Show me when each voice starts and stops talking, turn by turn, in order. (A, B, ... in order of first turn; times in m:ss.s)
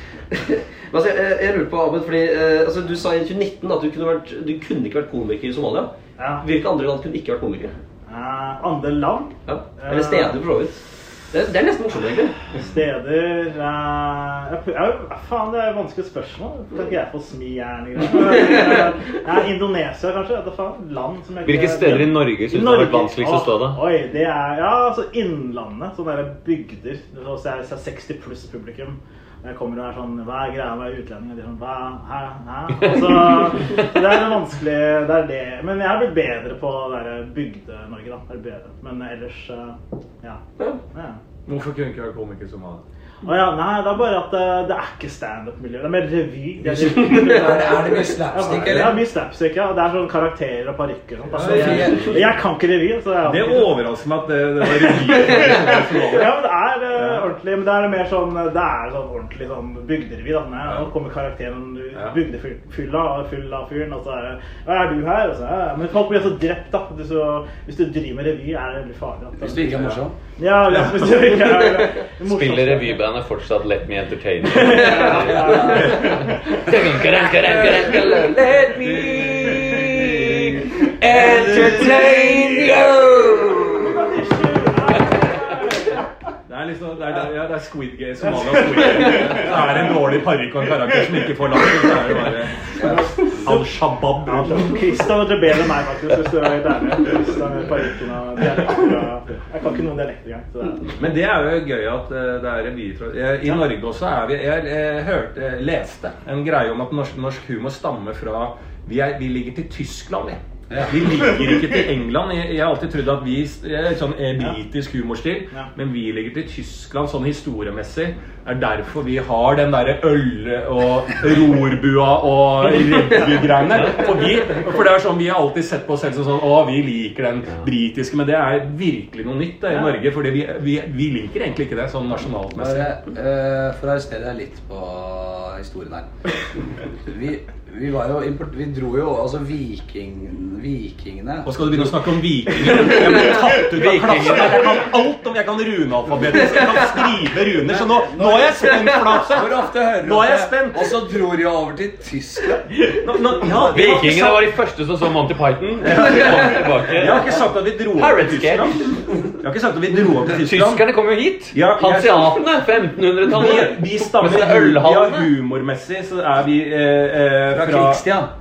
0:00.3-0:07.8 A
0:06.2-0:06.4 B
0:08.1-0:10.4 B
0:09.5-0:10.8 A
0:11.3-0:12.4 A
0:12.5-0:40.4 B
0:21.4-0:23.9 C
0:32.8-0:33.5 C
0:40.9-0:41.2 B
0:41.5-0:42.8 D
0:43.2-0:53.8 B
0:46.6-0:48.8 A
0:47.2-0:49.0 E
0:51.3-0:52.2 D
0:51.4-0:52.1 E
0:53.2-0:56.4 D
0:54.8-0:56.2 A
0:56.1-1:09.7 B
0:56.9-0:57.3 D
1:09.4-1:10.1 E
1:09.8-1:10.0 D
1:10.4-1:13.0 B
1:11.6-1:12.0 A
1:12.2-1:21.9 C
1:14.6-1:16.4 B
1:14.6-1:15.1 A
1:17.5-1:19.0 E
1:18.8-1:20.0 D
1:21.0-1:22.7 D
1:21.0-1:22.7 E
1:21.1-1:22.3 A
1:22.4-1:23.1 C
1:23.8-1:26.0 B
1:26.5-1:32.7 D
1:28.3-1:29.9 B
1:28.8-1:29.1 A
1:32.8-1:33.7 B
1:33.4-1:34.7 D
1:34.2-1:40.9 B
1:41.0-2:12.9 D
1:50.7-1:51.1 E
2:12.6-2:16.1 E
2:17.0-2:21.9 E
2:21.4-2:31.0 D
2:23.6-2:24.6 C
2:27.6-2:32.7 E
2:33.0-2:34.5 D
2:33.6-2:37.4 C
2:35.8-2:40.8 D
2:37.9-2:39.3 C
2:40.2-2:45.3 C
2:41.5-2:42.4 D
2:43.2-2:48.0 D
2:47.5-2:48.3 E